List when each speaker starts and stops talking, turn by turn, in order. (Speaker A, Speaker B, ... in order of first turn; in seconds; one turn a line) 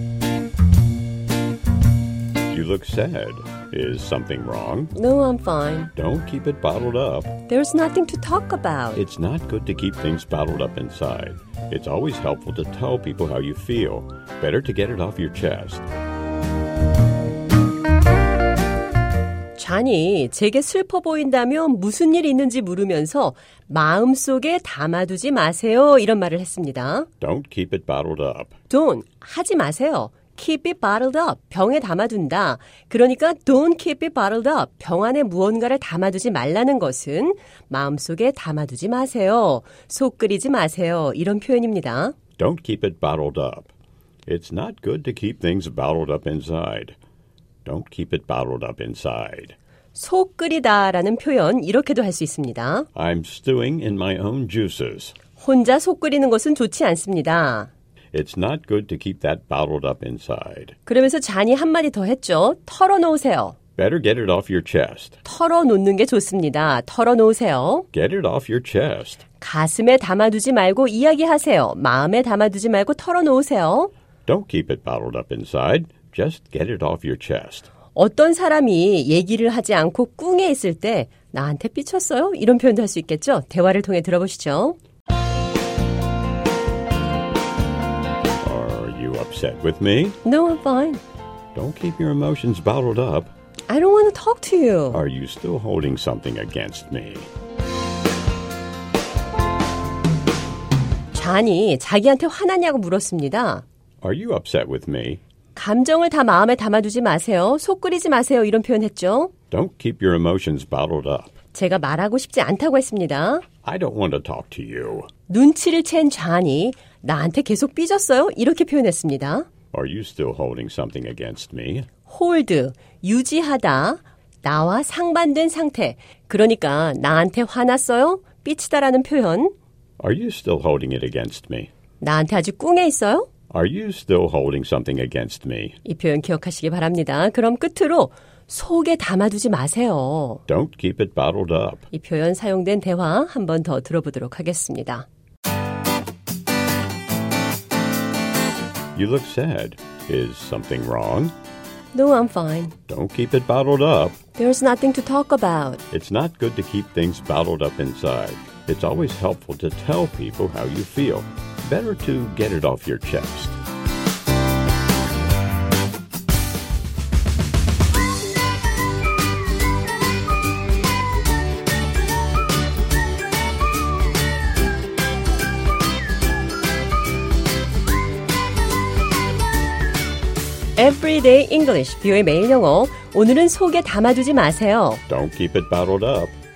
Speaker A: 2.5-4.9
Speaker B: 4.9-5.9
Speaker A: 6.0-7.3
Speaker B: 7.5-9.0
Speaker A: 8.9-15.9
Speaker B: 19.6-27.1
Speaker A: 27.2-28.5
Speaker B: 28.7-42.2
Speaker A: 42.4-43.7
Speaker A: 44.3-47.0
Speaker A: 47.6-49.6
Speaker B: 49.9-52.9
Speaker A: 53.0-55.1
Speaker B: 55.4-57.7
Speaker A: 58.1-60.8
Speaker B: 60.9-63.6
Speaker A: 63.8-65.2
Speaker B: 65.2-67.9
Speaker A: 67.9-69.2
Speaker B: 69.4-73.9
Speaker A: 74.3-77.7
Speaker B: 78.0-84.8
Speaker A: 88.4-90.2
Speaker B: 90.2-91.0
Speaker A: 91.5-93.3
Speaker B: 93.7-95.0
Speaker A: 94.9-97.3
Speaker B: 101.1-103.6
Speaker A: 104.0-105.2
Speaker B: 105.5-109.3
Speaker A: 109.5-111.3
Speaker B: 111.5-113.5
Speaker A: 113.6-115.1
Speaker B: 115.3-119.5
Speaker A: 119.7-121.9
Speaker B: 122.0-129.5
Speaker A: 130.0-131.7
Speaker B: 132.0-133.3
Speaker A: 133.5-135.8
Speaker B: 135.8-140.4
Speaker A: 140.5-141.9
Speaker B: 141.9-145.1
Speaker A: 148.9-151.3
Speaker B: 151.9-152.8
Speaker A: 152.9-154.2
Speaker B: 154.3-155.8
Speaker A: 155.9-163.6
Speaker B: 180.8-185.0
Speaker A: 185.1-186.3